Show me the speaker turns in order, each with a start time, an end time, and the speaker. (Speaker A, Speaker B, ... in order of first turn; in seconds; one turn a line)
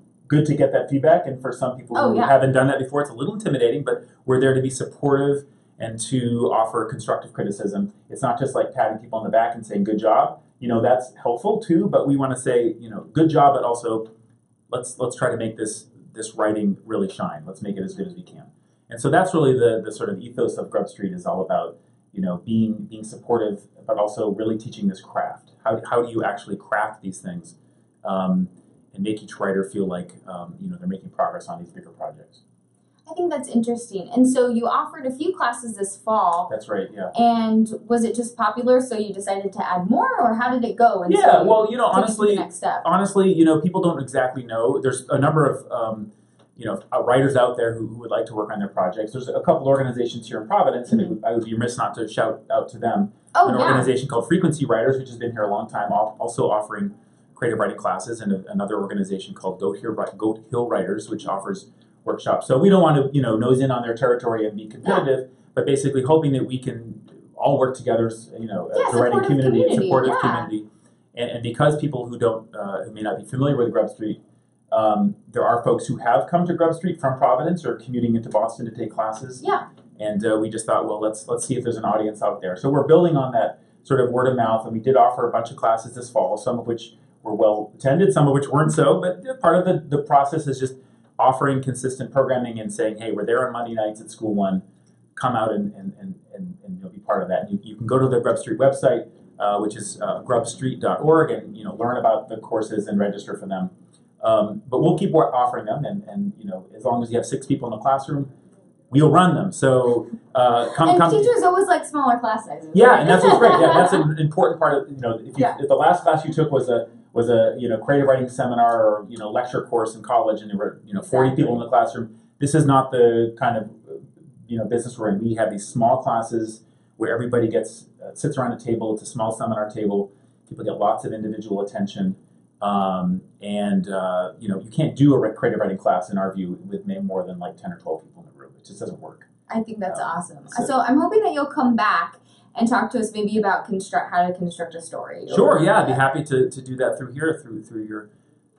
Speaker A: 0.3-14.1
Speaker B: 1.9-2.3
Speaker A: 14.7-32.4
Speaker B: 33.1-36.5
Speaker A: 36.5-37.1
Speaker B: 37.1-42.9
Speaker A: 41.1-74.2
Speaker B: 50.9-51.1
Speaker B: 53.4-53.9
Speaker B: 68.7-70.5
Speaker A: 74.7-79.4
Speaker B: 79.4-79.7
Speaker A: 80.0-94.6
Speaker A: 95.2-108.3
Speaker A: 108.9-111.3
Speaker B: 110.8-114.0
Speaker A: 112.7-139.3
Speaker B: 121.0-121.6
Speaker B: 139.5-146.0
Speaker A: 139.9-140.7
Speaker A: 145.3-148.1